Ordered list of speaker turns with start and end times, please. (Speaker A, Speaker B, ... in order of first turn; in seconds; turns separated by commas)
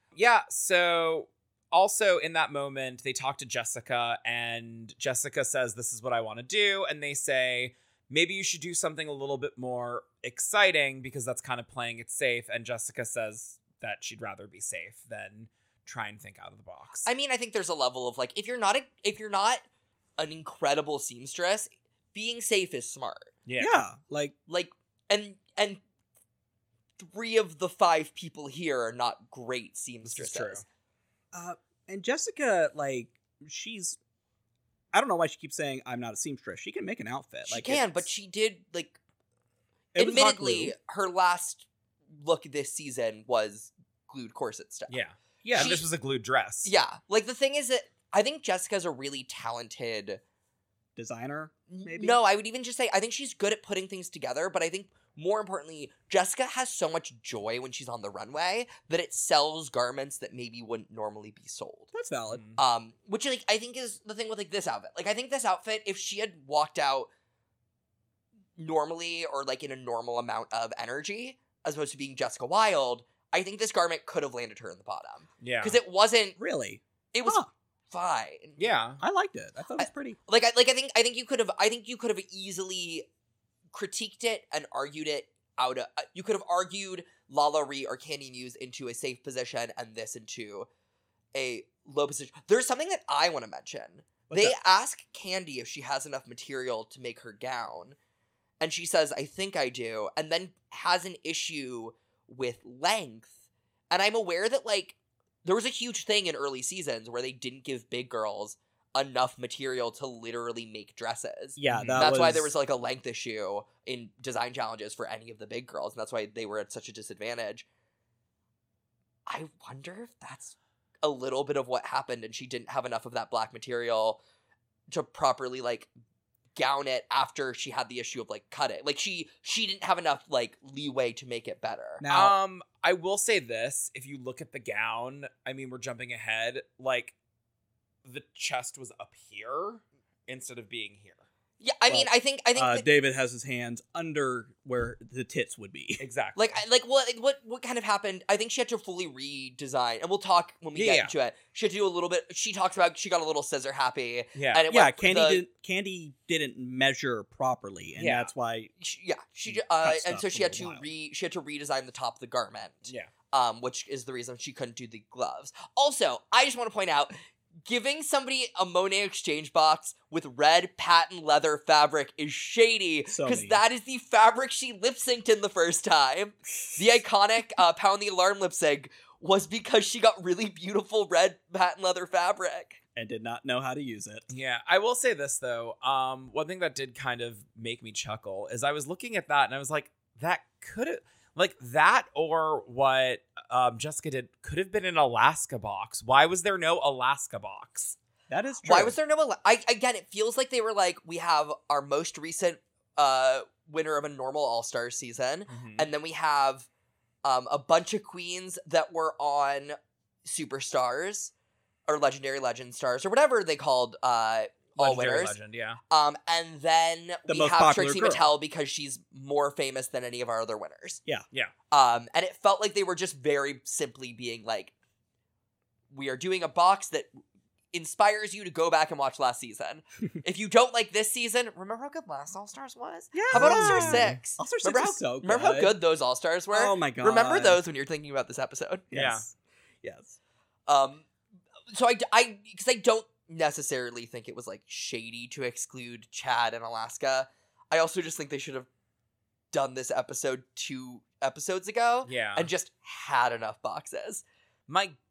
Speaker A: 0.1-17.1, Speaker B: 17.0-19.6, Speaker B: 20.2-23.3, Speaker A: 23.4-23.8, Speaker C: 23.6-24.4, Speaker B: 24.5-25.8, Speaker B: 27.0-30.6, Speaker A: 30.0-30.6, Speaker C: 31.3-34.0, Speaker C: 34.9-38.1, Speaker B: 37.5-39.0, Speaker C: 39.9-40.7, Speaker B: 39.9-45.0, Speaker A: 44.9-46.7, Speaker C: 45.4-45.8, Speaker B: 45.5-45.9, Speaker B: 46.6-50.2, Speaker C: 51.0-52.2, Speaker B: 51.7-61.9, Speaker C: 61.9-62.4, Speaker A: 62.3-62.6, Speaker B: 62.6-67.1, Speaker B: 68.6-76.4, Speaker A: 75.4-75.8, Speaker C: 76.4-77.5, Speaker B: 77.1-78.6, Speaker A: 78.6-79.0, Speaker C: 79.0-80.2, Speaker B: 79.8-83.0, Speaker B: 83.7-90.7, Speaker B: 91.3-98.0, Speaker C: 94.3-94.5, Speaker B: 98.6-103.3, Speaker B: 103.9-117.7, Speaker C: 111.6-112.5, Speaker A: 111.7-112.1, Speaker B: 119.3-124.2, Speaker B: 124.9-125.9, Speaker B: 126.5-132.0, Speaker C: 132.0-132.3, Speaker A: 132.1-137.1, Speaker A: 138.0-141.2, Speaker B: 141.6-142.9, Speaker C: 141.9-146.0, Speaker A: 146.0-146.6, Speaker B: 146.3-155.4, Speaker A: 150.7-151.1, Speaker A: 154.3-154.6, Speaker C: 154.7-158.7, Speaker A: 158.0-158.3, Speaker B: 158.8-182.8, Speaker C: 159.5-160.9, Speaker C: 173.1-173.6, Speaker C: 182.9-184.2, Speaker A: 184.3-197.9, Speaker C: 198.3-198.9, Speaker B: 198.6-206.7, Speaker A: 205.5-205.9, Speaker B: 207.2-211.3, Speaker B: 211.9-215.4, Speaker A: 214.8-215.8, Speaker B: 215.9-221.0, Speaker C: 217.3-218.3, Speaker B: 221.7-224.7, Speaker B: 225.9-227.1, Speaker B: 227.7-238.9, Speaker C: 233.1-235.8, Speaker A: 233.3-234.1, Speaker C: 236.5-237.6, Speaker C: 238.9-239.3, Speaker A: 238.9-239.3, Speaker C: 239.8-240.2, Speaker B: 240.7-241.1, Speaker B: 241.7-248.7, Speaker B: 249.5-254.2, Speaker A: 252.0-252.5, Speaker A: 254.7-254.9